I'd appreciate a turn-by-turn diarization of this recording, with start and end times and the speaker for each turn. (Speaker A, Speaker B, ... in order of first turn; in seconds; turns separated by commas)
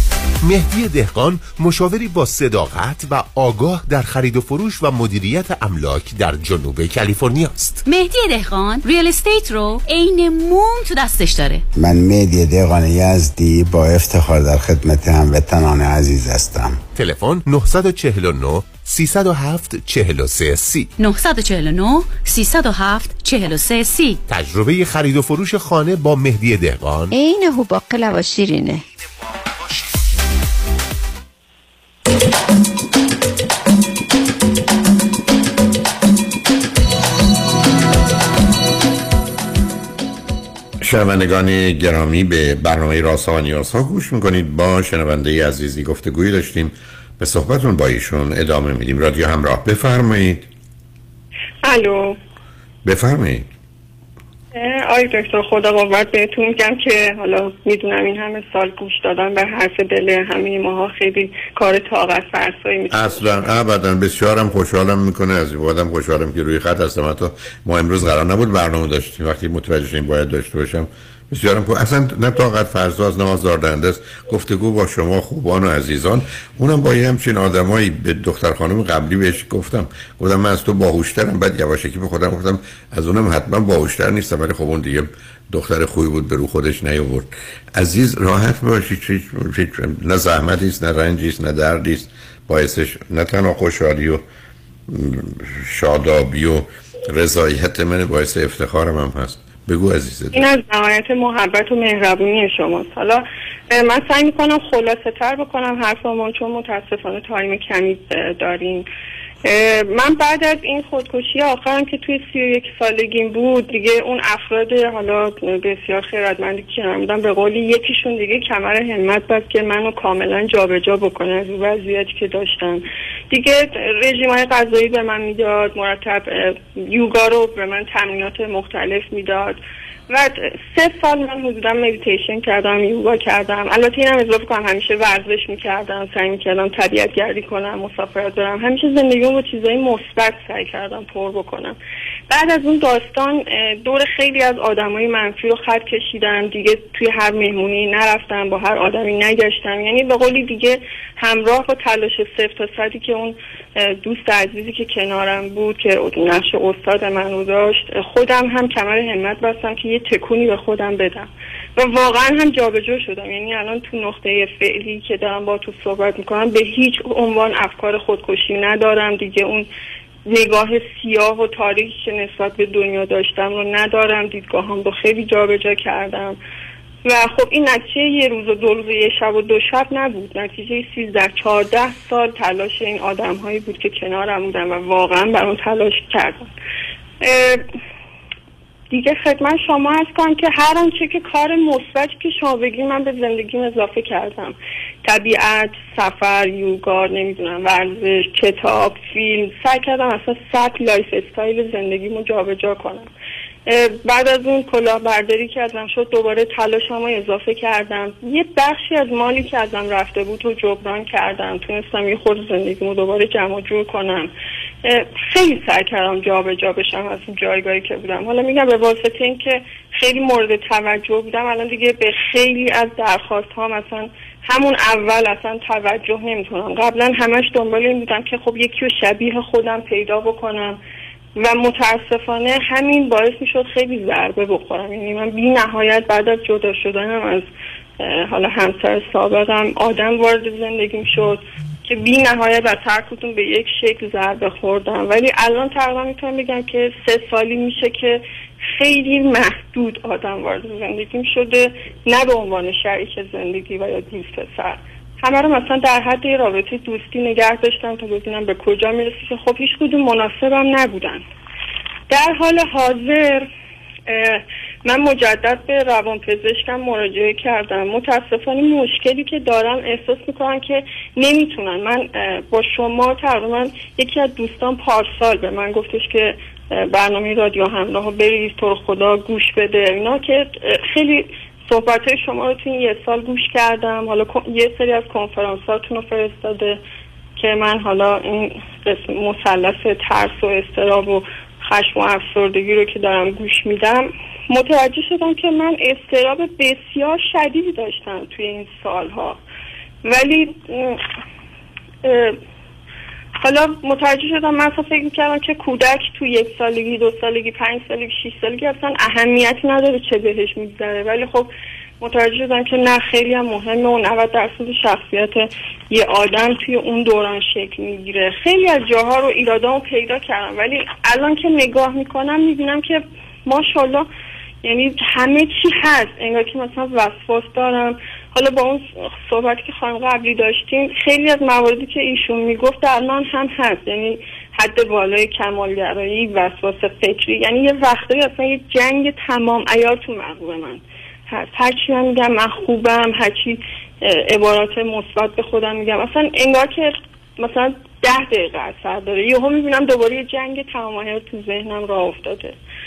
Speaker A: 0.4-7.8, Speaker B: 7.9-11.6, Speaker C: 11.8-16.8, Speaker A: 16.9-20.9, Speaker B: 21.0-24.1, Speaker A: 24.3-27.1, Speaker B: 27.6-28.5, Speaker D: 40.8-50.5, Speaker E: 51.6-52.2, Speaker D: 52.8-53.5, Speaker E: 54.5-63.5, Speaker D: 62.9-94.2, Speaker D: 94.9-100.4, Speaker E: 100.3-108.8, Speaker E: 109.4-141.8, Speaker E: 142.3-169.7, Speaker E: 170.2-176.4, Speaker E: 177.0-186.5, Speaker E: 187.2-187.6, Speaker E: 188.9-203.1, Speaker E: 203.7-214.3, Speaker E: 214.8-230.8, Speaker E: 231.4-237.5, Speaker E: 238.0-261.2, Speaker E: 262.1-263.5, Speaker E: 264.1-286.8, Speaker E: 287.4-299.4, Speaker E: 300.0-301.0, Speaker E: 302.0-302.4, Speaker E: 303.4-311.5, Speaker E: 312.0-324.1, Speaker E: 324.6-352.6